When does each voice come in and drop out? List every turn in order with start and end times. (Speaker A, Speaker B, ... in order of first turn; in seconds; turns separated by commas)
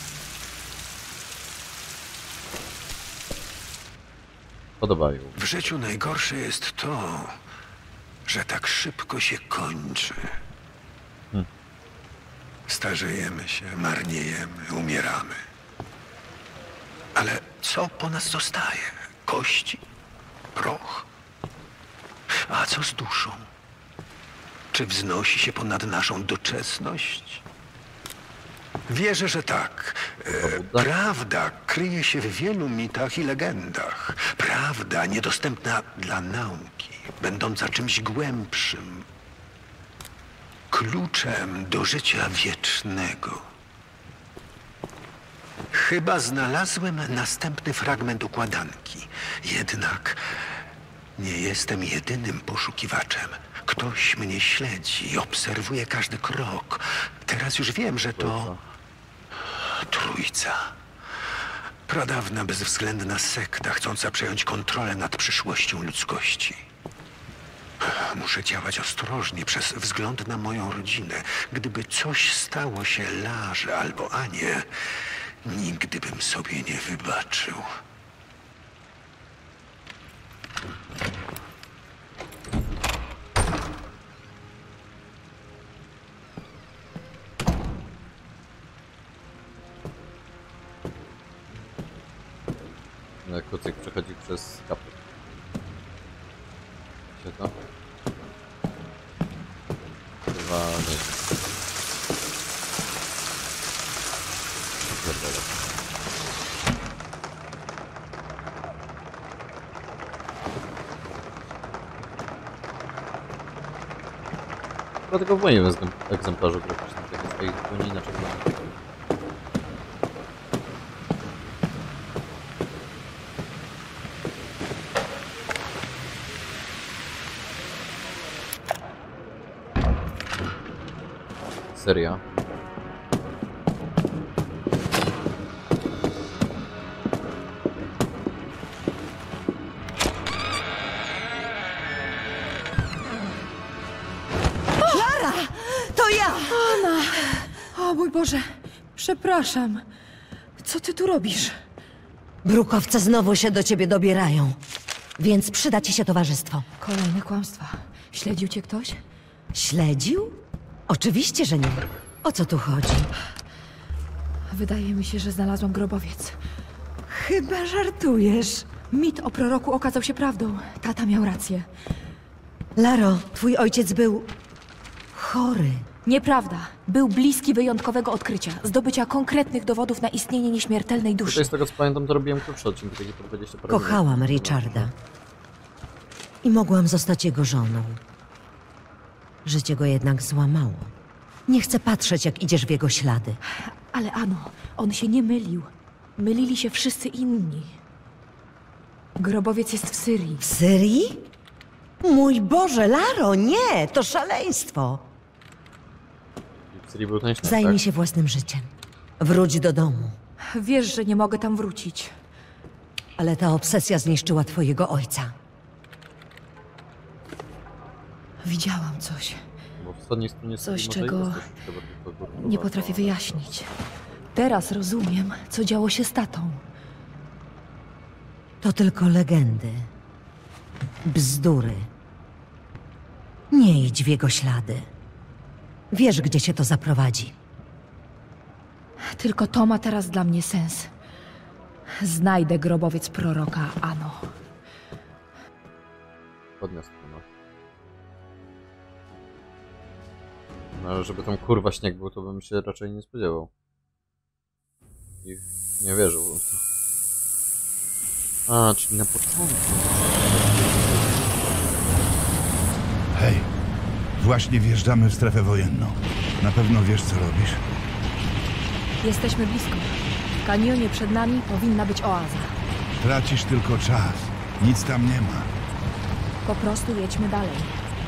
Speaker A: 4.8-5.7, Speaker B: 5.4-7.3, Speaker B: 8.3-10.3, Speaker B: 12.7-15.4, Speaker B: 17.2-19.8, Speaker B: 20.6-21.1, Speaker B: 22.4-23.4, Speaker B: 24.7-27.4, Speaker B: 28.9-39.0, Speaker A: 30.3-30.9, Speaker B: 40.7-43.4, Speaker B: 45.7-50.2, Speaker B: 51.2-58.5, Speaker A: 58.2-58.6, Speaker B: 59.5-60.7, Speaker B: 61.9-66.6, Speaker B: 67.8-74.7, Speaker B: 75.5-77.6, Speaker A: 93.2-95.0, Speaker A: 97.2-97.5, Speaker A: 100.3-101.2, Speaker A: 104.8-105.8, Speaker A: 115.1-118.8, Speaker A: 131.7-132.2, Speaker C: 144.8-145.9, Speaker D: 145.9-146.7, Speaker C: 146.4-149.8, Speaker C: 150.6-151.6, Speaker D: 152.4-154.6, Speaker D: 155.2-156.7, Speaker C: 156.8-159.0, Speaker D: 159.5-163.1, Speaker C: 164.5-166.4, Speaker C: 167.1-171.7, Speaker D: 172.8-174.3, Speaker D: 175.2-175.8, Speaker C: 176.1-181.5, Speaker A: 181.2-184.9, Speaker D: 183.7-184.9, Speaker D: 186.4-188.0, Speaker D: 189.4-190.9, Speaker D: 191.5-193.4, Speaker C: 193.5-197.8, Speaker C: 199.2-200.4, Speaker D: 200.4-201.2, Speaker D: 202.0-205.1, Speaker A: 206.7-207.8, Speaker D: 207.4-210.2, Speaker C: 210.5-212.1, Speaker D: 213.2-215.3, Speaker C: 218.4-219.4, Speaker A: 219.8-223.5, Speaker C: 220.6-221.5, Speaker C: 222.4-223.7, Speaker C: 224.3-226.6, Speaker D: 228.6-229.9, Speaker D: 231.1-231.9, Speaker D: 233.5-234.9, Speaker D: 235.9-237.3, Speaker C: 239.1-240.9, Speaker C: 242.0-244.3, Speaker A: 246.6-247.3, Speaker A: 250.7-253.5, Speaker A: 255.2-256.6, Speaker A: 258.5-260.2, Speaker E: 263.1-263.5, Speaker E: 264.2-267.6, Speaker C: 269.0-272.6, Speaker E: 273.0-275.5, Speaker C: 276.4-277.7